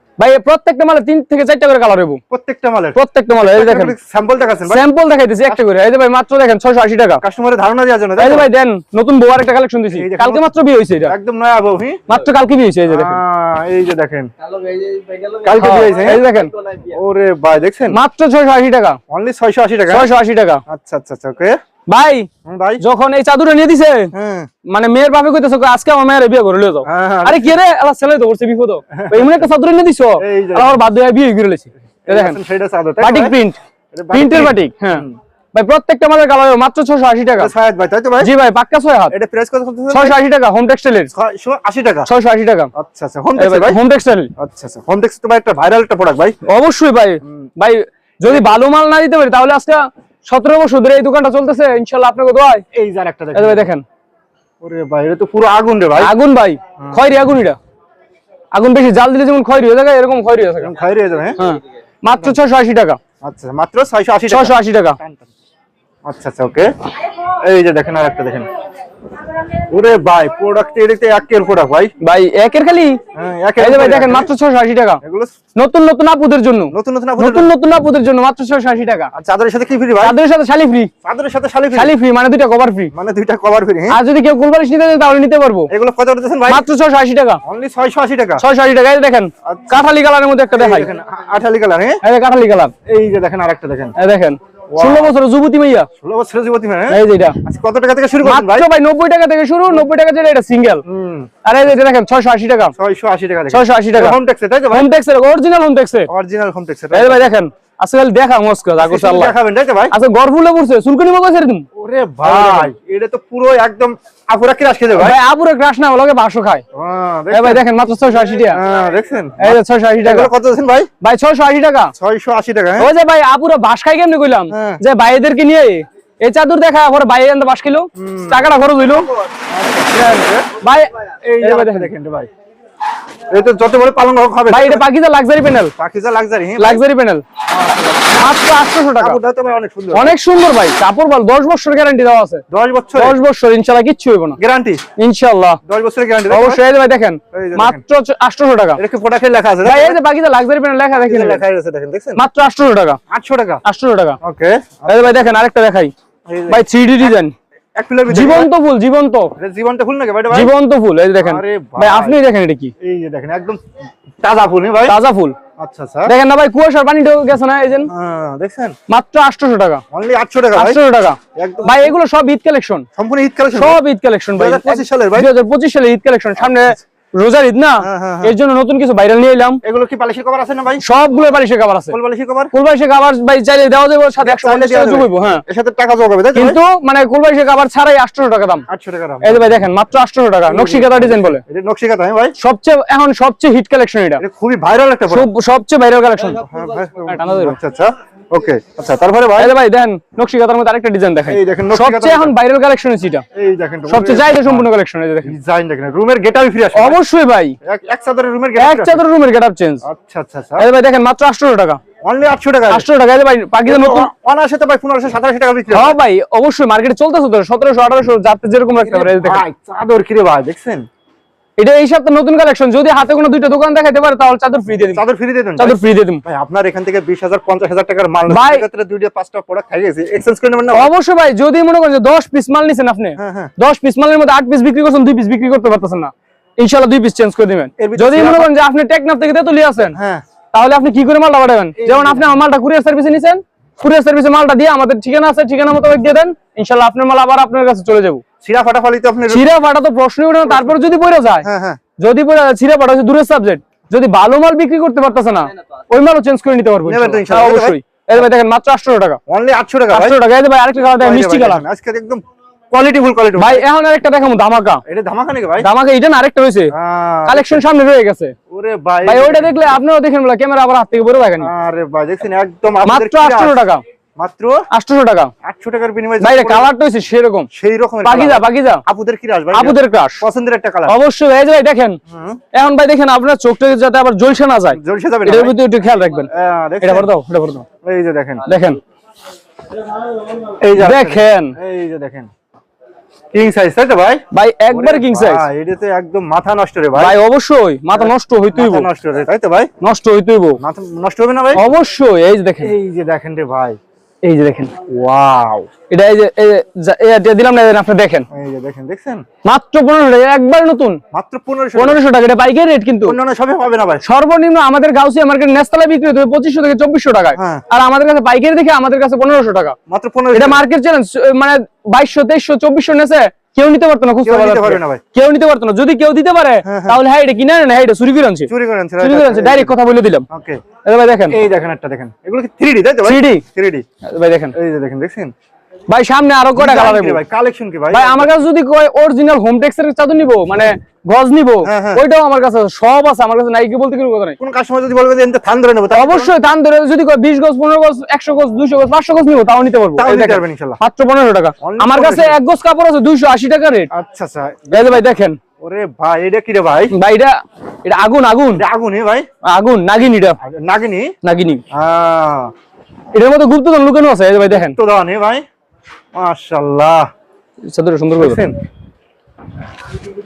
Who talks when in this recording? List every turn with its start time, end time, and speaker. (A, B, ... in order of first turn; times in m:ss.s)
0:00.2-0:02.2 A
0:02.3-0:04.8 B
0:02.9-0:03.9 A
0:04.7-0:07.2 A
0:07.2-0:08.5 B
0:08.2-0:11.1 A
0:09.9-0:10.5 B
0:11.0-0:12.0 B
0:12.1-0:13.2 A
0:12.9-0:14.3 B
0:15.3-0:16.2 B
0:15.6-0:16.5 A
0:16.8-0:18.0 B
0:17.9-0:19.0 A
0:19.1-0:20.1 B
0:19.9-0:20.6 A
0:20.7-0:21.6 B
0:21.9-0:22.3 A
0:22.4-0:22.8 B
0:22.8-0:24.1 A
0:24.1-0:24.5 B
0:24.7-0:32.4 A
0:26.8-0:27.6 B
0:28.9-0:29.5 B
0:30.2-0:30.8 B
0:32.0-0:33.4 B
0:33.0-0:33.6 A
0:33.9-0:35.2 B
0:34.1-0:37.5 A
0:37.4-0:38.3 B
0:38.2-0:39.1 A
0:39.1-0:40.2 B
0:39.9-0:41.1 A
0:41.1-0:42.1 B
0:42.1-0:42.7 A
0:42.7-0:43.8 B
0:43.4-0:44.3 A
0:44.4-0:46.4 B
0:46.4-0:52.6 A
0:48.2-0:48.6 B
0:52.7-0:53.7 B
0:53.3-0:53.8 A
0:54.6-0:56.1 B
0:56.0-0:57.6 A
0:56.8-0:57.0 B
0:58.5-1:00.7 A
1:00.6-1:01.4 B
1:01.4-1:03.0 A
1:03.2-1:05.3 B
1:04.3-1:05.0 A
1:06.0-1:06.7 B
1:07.4-1:08.5 B
1:09.7-1:11.9 B
1:12.0-1:13.0 A
1:13.1-1:14.3 B
1:13.6-1:15.0 A
1:15.0-1:15.3 B
1:15.6-1:19.1 A
1:16.7-1:17.5 B
1:19.1-1:20.2 B
1:20.0-1:20.9 A
1:21.0-1:21.9 B
1:21.7-1:22.9 A
1:22.9-1:24.0 B
1:23.9-1:25.7 A
1:25.7-1:26.6 B
1:26.5-1:27.4 A
1:27.4-1:28.4 B
1:28.4-1:30.9 A
1:29.4-1:29.8 B
1:30.5-1:32.0 B
1:32.0-1:32.7 A
1:32.8-1:33.9 B
1:34.0-1:35.9 A
1:34.7-1:35.1 B
1:36.0-1:38.7 B
1:36.9-1:37.4 A
1:38.2-1:40.8 A
1:40.8-1:41.3 B
1:41.4-1:42.7 A
1:42.8-1:44.9 B
1:43.5-1:44.2 A
1:44.7-1:46.1 A
1:46.1-1:47.3 B
1:46.9-1:49.3 A
1:48.8-1:49.9 B
1:49.9-1:51.6 A
1:51.8-1:55.2 B
1:52.2-1:52.7 A
1:55.0-1:56.6 A
1:56.7-1:57.6 B
1:57.3-1:58.6 A
1:58.5-2:00.9 B
1:59.4-2:00.3 A
2:01.0-2:01.9 A
2:02.0-2:02.9 B
2:02.8-2:09.1 A
2:04.5-2:04.8 B
2:08.0-2:08.5 B
2:09.5-2:10.4 B
2:09.9-2:11.9 A
2:11.2-2:12.3 B
2:13.3-2:14.8 B
2:14.5-2:15.7 A
2:15.8-2:16.8 B
2:16.6-2:17.2 A
2:17.5-2:18.3 B
2:18.1-2:19.2 A
2:19.0-2:20.2 B
2:19.9-2:22.4 A
2:22.5-2:23.2 B
2:23.0-2:24.4 A
2:24.4-2:24.8 B
2:25.0-2:25.6 A
2:25.6-2:26.6 B
2:26.3-2:28.8 A
2:27.3-2:27.8 B
2:28.8-2:30.0 B
2:29.6-2:31.4 A
2:31.0-2:32.2 B
2:32.2-2:33.0 A
2:33.1-2:33.6 B
2:33.6-2:34.2 A
2:34.2-2:35.1 B
2:34.9-2:35.9 A
2:36.3-2:37.2 B
2:36.5-2:37.3 A
2:37.8-2:38.5 B
2:38.1-2:39.3 A
2:39.4-2:40.5 B
2:40.3-2:42.7 A
2:41.2-2:42.2 B
2:42.8-2:43.6 B
2:44.2-2:45.0 B
2:44.9-2:45.4 A
2:45.6-2:46.1 B
2:46.0-2:47.9 A
2:47.9-2:48.8 B
2:48.9-2:49.8 A
2:49.9-2:50.8 B
2:50.5-2:52.8 A
2:51.3-2:51.9 B
2:53.0-2:53.8 B
2:53.5-2:59.6 A
2:54.3-2:55.3 B
2:56.4-2:56.7 B
2:57.8-2:58.4 B
2:59.6-3:00.8 B
3:00.8-3:02.0 A
3:01.9-3:02.5 B
3:02.5-3:05.4 A
3:04.2-3:06.6 B
3:06.3-3:08.6 A
3:08.7-3:09.6 B
3:09.2-3:11.4 A
3:10.5-3:12.3 B
3:12.4-3:14.2 A
3:14.2-3:15.3 B
3:15.1-3:16.4 A
3:16.4-3:19.5 B
3:17.1-3:17.6 A
3:19.4-3:23.2 A
3:21.3-3:22.3 B
3:23.3-3:24.7 B
3:23.9-3:25.3 A
3:25.2-3:27.0 B
3:26.7-3:27.6 A
3:27.6-3:29.0 B
3:28.6-3:29.8 A
3:29.8-3:30.6 B
3:30.6-3:31.8 A
3:32.0-3:32.9 B
3:32.7-3:34.1 A
3:33.6-3:36.0 B
3:35.7-3:39.4 A
3:38.8-3:40.8 B
3:41.6-3:45.0 A
3:44.9-3:50.9 B
3:45.6-3:46.2 A
3:48.3-3:48.6 A
3:50.7-4:00.0 A
3:53.2-3:53.5 B
3:57.8-3:58.5 B
3:59.9-4:00.2 B
4:00.5-4:08.2 A
4:01.8-4:02.4 B
4:08.4-4:09.5 B
4:09.3-4:11.5 A
4:10.4-4:10.8 B
4:11.4-4:11.8 B
4:12.0-4:19.2 A
4:16.8-4:18.3 B
4:19.3-4:20.2 B
4:19.9-4:21.6 A
4:20.9-4:23.6 B
4:23.4-4:24.8 A
4:24.8-4:25.7 B
4:25.6-4:26.7 A
4:26.7-4:27.6 B
4:27.3-4:28.3 A
4:28.5-4:29.6 B
4:29.0-4:31.5 A
4:31.4-4:34.6 B
4:32.8-4:33.8 A
4:34.7-4:35.3 A
4:35.4-4:36.7 B
4:36.2-4:37.5 A
4:37.5-4:40.9 B
4:38.0-4:38.8 A
4:39.5-4:40.2 A
4:40.9-4:42.0 A
4:42.1-4:42.4 B
4:42.5-4:46.3 A
4:44.7-4:45.6 B
4:46.3-4:47.1 B
4:46.8-4:47.6 A
4:47.8-4:48.5 B
4:48.4-4:48.8 A
4:50.6-4:52.3 B
4:50.8-4:51.5 A
4:53.3-4:57.2 B
4:54.3-4:55.4 A
4:57.0-4:58.9 A
4:57.9-4:59.7 B
4:59.8-5:00.6 A
5:00.6-5:01.6 B
5:01.6-5:02.7 A
5:02.6-5:03.8 B
5:04.2-5:04.7 A
5:04.9-5:05.7 B
5:05.9-5:08.2 A
5:08.3-5:09.2 B
5:09.4-5:11.0 A
5:11.1-5:12.0 B
5:11.8-5:13.2 A
5:13.0-5:14.0 B
5:14.0-5:19.8 A
5:17.3-5:17.6 B
5:19.9-5:20.6 B
5:20.3-5:28.5 A
5:24.2-5:25.0 B
5:26.6-5:27.0 B
5:28.5-5:29.8 B
5:29.0-5:30.2 A
5:30.3-5:30.6 B
5:30.8-5:31.4 A
5:31.3-5:33.8 B
5:33.0-5:33.4 A
5:34.0-5:34.5 A
5:34.5-5:35.3 B
5:35.9-5:37.2 A
5:36.5-5:38.3 B
5:37.9-5:44.4 A
5:41.6-5:42.0 B
5:44.4-5:46.3 B
5:45.9-5:53.9 A
5:50.0-5:50.8 B
5:51.6-5:52.4 B
5:53.9-5:55.0 B
5:54.7-5:55.4 A
5:55.6-5:56.9 B
5:56.9-5:58.6 A
5:58.5-5:59.3 B
5:59.4-6:00.4 A
6:00.4-6:01.1 B
6:01.2-6:01.6 A
6:01.7-6:02.5 B
6:03.1-6:04.8 A
6:04.5-6:05.4 B
6:06.1-6:07.1 B
6:07.7-6:08.4 A
6:08.2-6:08.5 B